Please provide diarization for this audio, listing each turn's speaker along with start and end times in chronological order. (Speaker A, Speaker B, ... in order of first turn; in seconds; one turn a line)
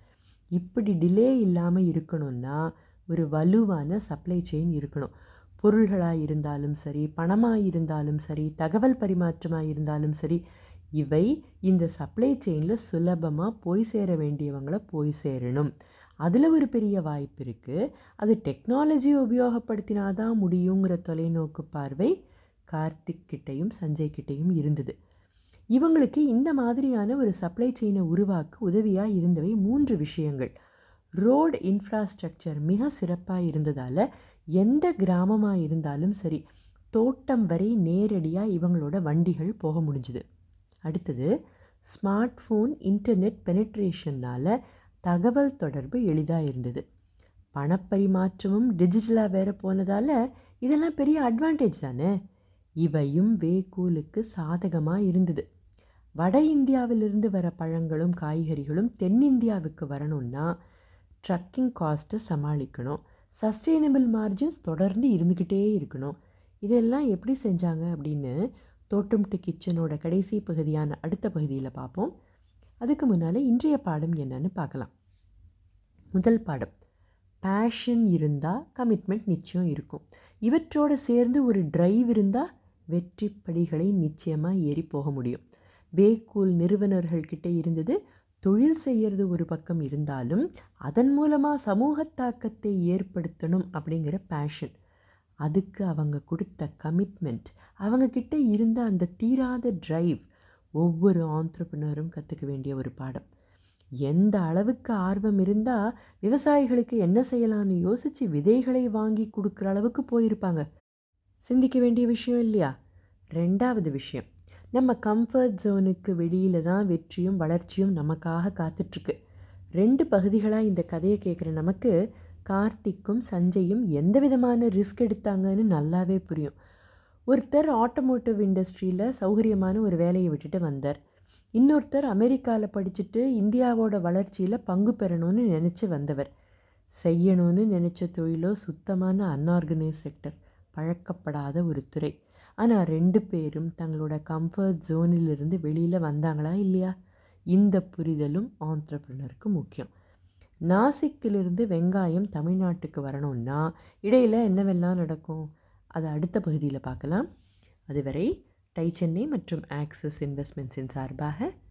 Speaker A: 0.6-10.4
Speaker A: 11.0-15.7
Speaker A: 16.2-22.1
Speaker A: 22.7-24.9
Speaker A: 25.7-30.5
Speaker A: 31.2-34.0
Speaker A: 34.6-36.4
Speaker A: 36.9-40.2
Speaker A: 40.9-41.3
Speaker A: 41.9-44.5
Speaker A: 45.0-46.8
Speaker A: 47.5-52.1
Speaker A: 52.8-55.4
Speaker A: 56.2-60.5
Speaker A: 61.2-68.3
Speaker A: 68.9-72.1
Speaker A: 72.8-74.9
Speaker A: 76.1-76.7
Speaker A: 77.4-85.4
Speaker A: 86.0-94.7
Speaker A: 95.4-100.2
Speaker A: 100.8-103.3
Speaker A: 104.0-110.6
Speaker A: 111.4-112.7
Speaker A: 113.3-119.1
Speaker A: 119.8-121.9
Speaker A: 122.5-126.5
Speaker A: 127.3-131.0
Speaker A: 131.6-136.3
Speaker A: 137.0-146.9
Speaker A: 147.5-149.9
Speaker A: 150.7-157.3
Speaker A: 157.9-161.5